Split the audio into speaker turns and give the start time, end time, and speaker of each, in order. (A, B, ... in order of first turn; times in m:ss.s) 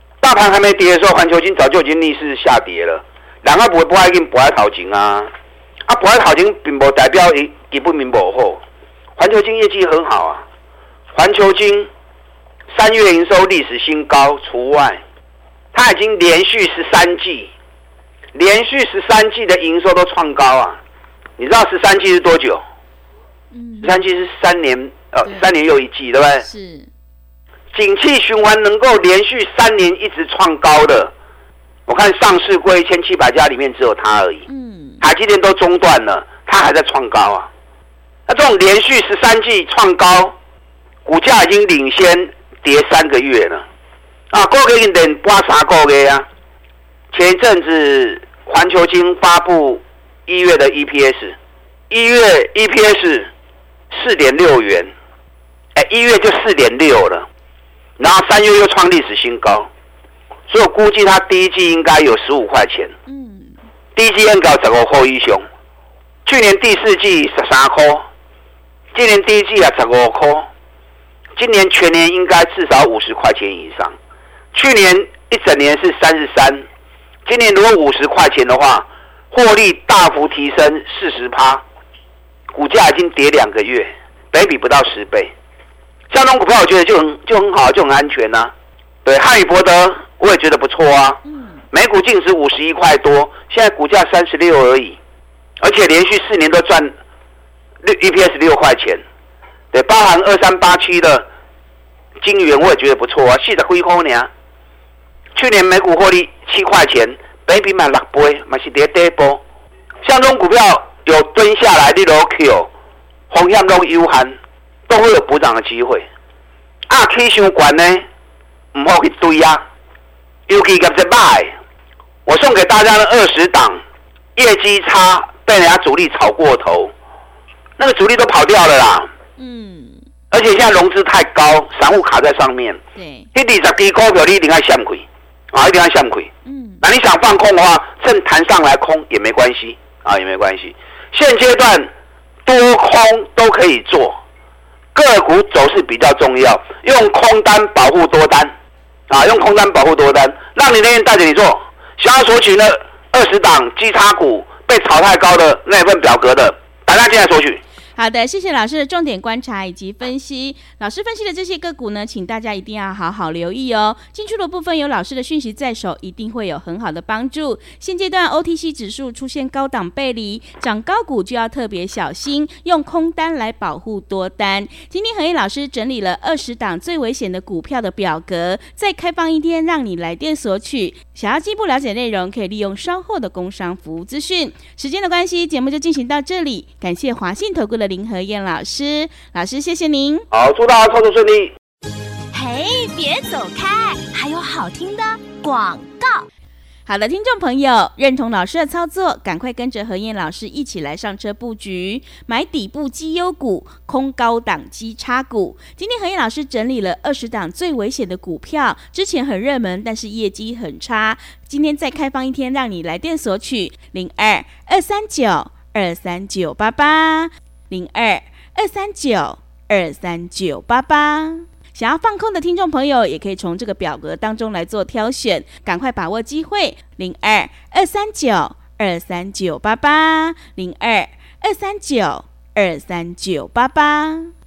0:00.2-0:05.3 A
0:05.9-0:08.6 A
0:09.2-0:10.4 A
0:11.1-0:11.9 A
0:12.7-0:15.0 A
0:15.7-0:17.5 A
0:18.3-0:20.8 A
0:21.4-0:22.6 A
0:23.5-0:24.1 B
0:23.8-0:26.4 A
0:26.4-0:26.9 B
0:27.7-0:31.1 A
0:31.9-0:34.5 A
0:34.5-0:35.1 B
0:35.0-0:37.5 A
0:38.3-0:40.4 A
0:41.0-0:43.6 A
0:44.3-0:46.3 A
0:47.1-0:51.4 A
0:51.9-0:53.3 A
0:53.9-0:54.9 A
0:55.8-0:57.3 A
0:58.0-0:59.7 A
1:00.5-1:03.0 A
1:03.1-1:03.5 B
1:04.0-1:05.4 A
1:06.3-1:08.0 A
1:08.9-1:10.5 A
1:11.4-1:14.0 A
1:14.5-1:16.7 A
1:17.3-1:21.6 A
1:22.5-1:25.3 A
1:26.1-1:28.5 A
1:29.0-1:35.0 A
1:31.3-1:31.6 B
1:35.6-1:36.9 A
1:37.8-1:39.0 A
1:39.7-1:41.3 A
1:42.2-1:44.3 A
1:45.3-1:49.4 A
1:50.0-1:52.7 A
1:53.3-1:54.4 A
1:54.9-1:56.1 A
1:56.9-1:58.0 A
1:58.7-1:59.6 A
2:00.5-2:01.5 A
2:02.3-2:03.8 A
2:04.4-2:06.9 A
2:07.8-2:09.1 A
2:09.4-2:10.0 B
2:10.3-2:12.8 A
2:13.0-2:13.3 B
2:13.3-2:16.3 A
2:16.4-2:16.8 B
2:16.8-2:21.9 A
2:22.5-2:24.2 A
2:24.9-2:28.5 A
2:29.1-2:37.6 A
2:38.0-3:10.2 B
3:10.3-3:11.5 A
3:12.3-3:16.3 C
3:16.9-3:54.3 B